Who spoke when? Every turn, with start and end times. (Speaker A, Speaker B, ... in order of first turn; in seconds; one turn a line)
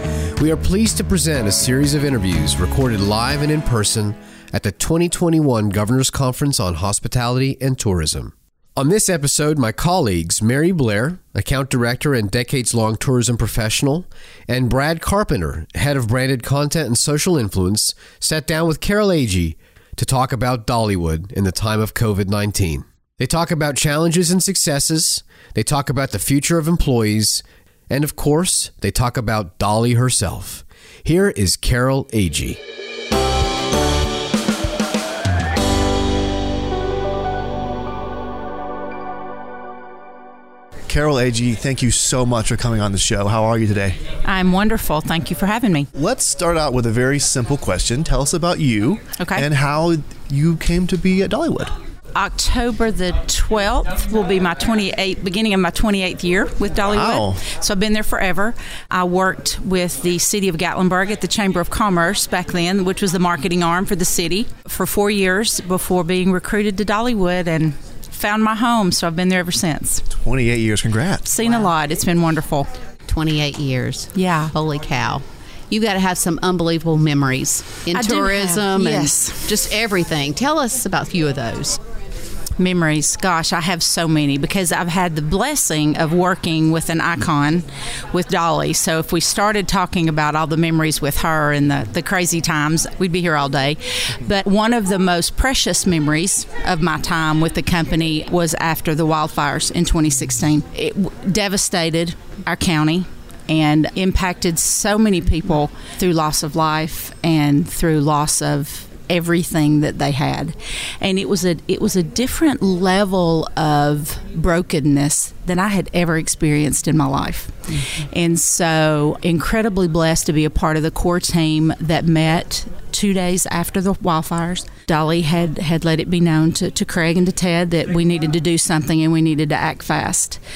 Speaker A: 0.4-32.6
Speaker B: 40.9-44.0
Speaker C: 44.2-45.9
Speaker B: 46.0-51.7
Speaker C: 49.2-49.5
Speaker C: 52.1-70.0
Speaker B: 56.9-57.4
Speaker B: 70.1-71.4
Speaker C: 71.3-72.7
Speaker D: 73.1-81.8
Speaker C: 74.1-74.5
Speaker C: 77.9-79.5
Speaker C: 82.6-130.4